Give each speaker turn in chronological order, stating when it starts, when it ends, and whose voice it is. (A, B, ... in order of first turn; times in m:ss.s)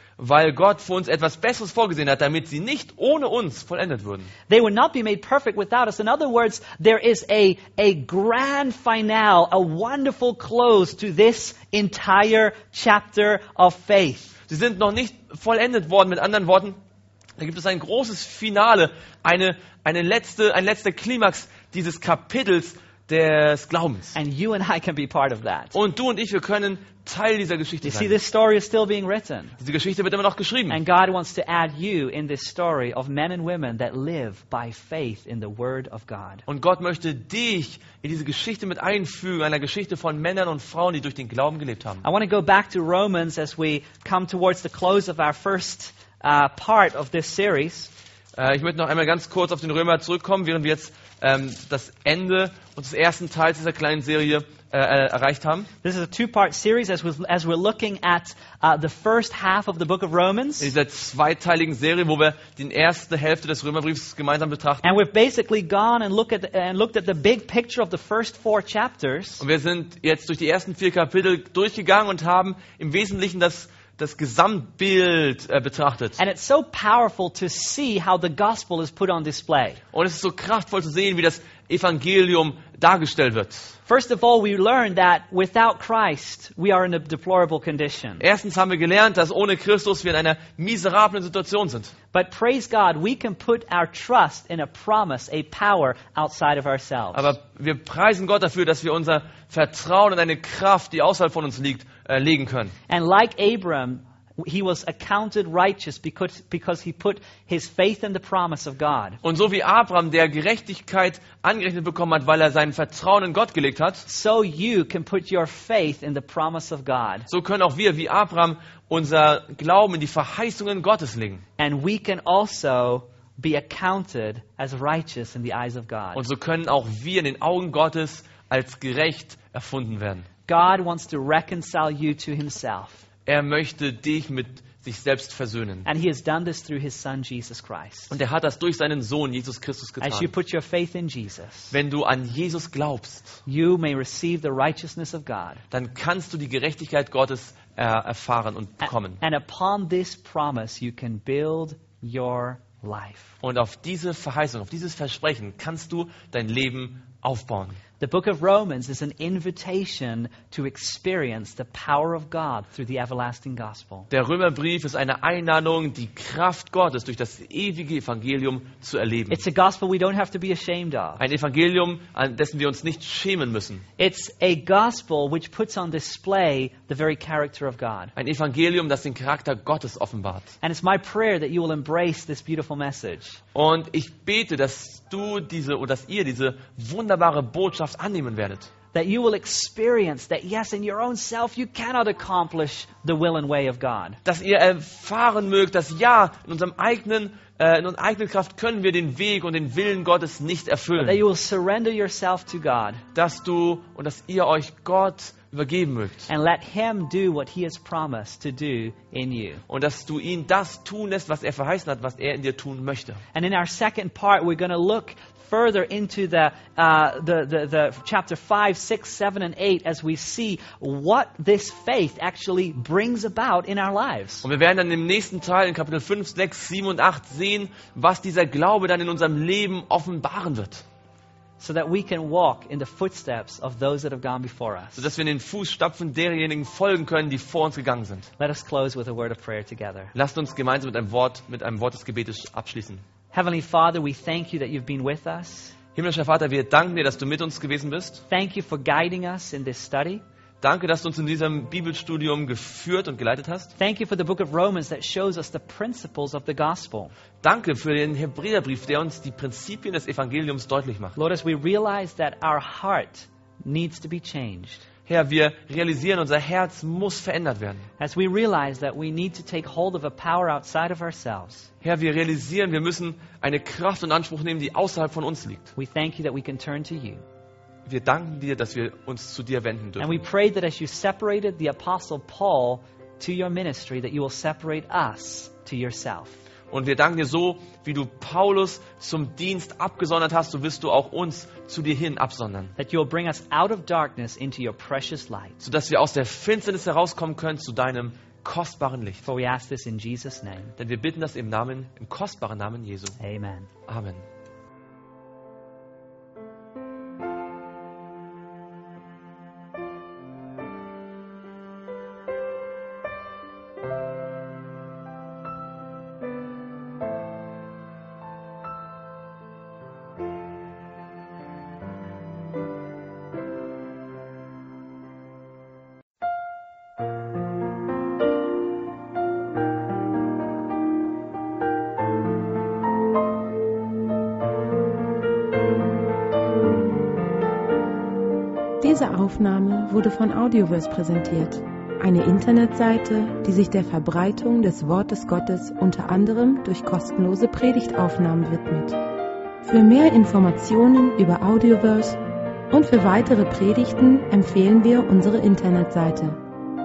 0:00.2-0:04.3 A
0:04.5-0:14.4 B
0:14.5-0:16.8 A
0:17.4-0:24.2 A
0:24.1-0:25.7 B
0:25.7-0:28.1 A
0:27.8-0:29.6 B
0:29.6-0:30.8 A
0:30.7-0:36.4 B
0:36.5-0:42.0 A
0:42.0-0:47.9 B
0:48.4-0:55.7 A
0:55.8-1:00.7 B
1:00.6-1:04.8 A
1:04.8-1:09.4 B
1:09.4-1:16.2 A
1:16.2-1:19.8 B
1:19.9-1:23.8 A
1:23.9-1:28.2 B
1:28.2-1:31.9 A
1:32.1-1:37.3 B
1:37.1-1:42.7 A
1:42.9-1:49.2 B
1:49.2-1:54.0 A
1:54.0-1:57.3 B
1:57.3-2:01.4 A
2:01.6-2:06.2 B
2:06.1-2:10.3 A
2:10.5-2:13.0 B
2:13.2-2:15.8 A
2:15.8-2:18.1 B
2:18.1-2:20.3 A
2:20.0-2:21.7 B
2:21.7-2:23.4 A
2:23.4-2:25.6 B
2:25.7-2:29.2 A
2:28.8-2:33.3 B
2:33.4-2:37.8 A
2:38.0-2:44.1 B
2:44.1-2:49.4 A
2:49.3-2:51.2 B
2:51.2-2:53.8 A
2:54.0-2:58.1 B
2:58.2-3:00.5 A
3:00.6-3:03.4 B
3:03.5-3:08.7 A
3:08.9-3:14.2 B
3:14.2-3:21.2 A
3:21.0-3:23.0 B
3:23.1-3:26.3 A
3:26.3-3:29.6 B
3:29.7-3:33.2 A
3:33.3-3:44.4 B
3:44.4-3:50.8 A
3:51.6-3:55.1 B
3:55.0-3:58.3 A
3:58.4-4:00.1 B
4:00.1-4:03.0 A
4:03.3-4:05.7 B
4:05.9-4:08.2 A
4:08.3-4:10.2 B
4:10.6-4:13.7 A
4:13.8-4:17.1 B
4:17.4-4:21.1 A
4:21.2-4:24.8 B
4:25.1-4:27.8 A
4:28.0-4:31.7 B
4:31.8-4:35.7 A
4:35.8-4:37.2 B
4:37.8-4:40.2 A
4:40.0-4:46.4 B
4:46.7-4:52.7 A
4:52.8-4:55.6 B
4:55.6-4:59.2 A
4:59.2-5:00.7 B
5:00.8-5:03.2 A
5:03.2-5:03.7 B
5:03.9-5:04.2 A
5:38.8-5:49.0 C
5:49.6-5:52.2 C
5:52.7-5:56.4 C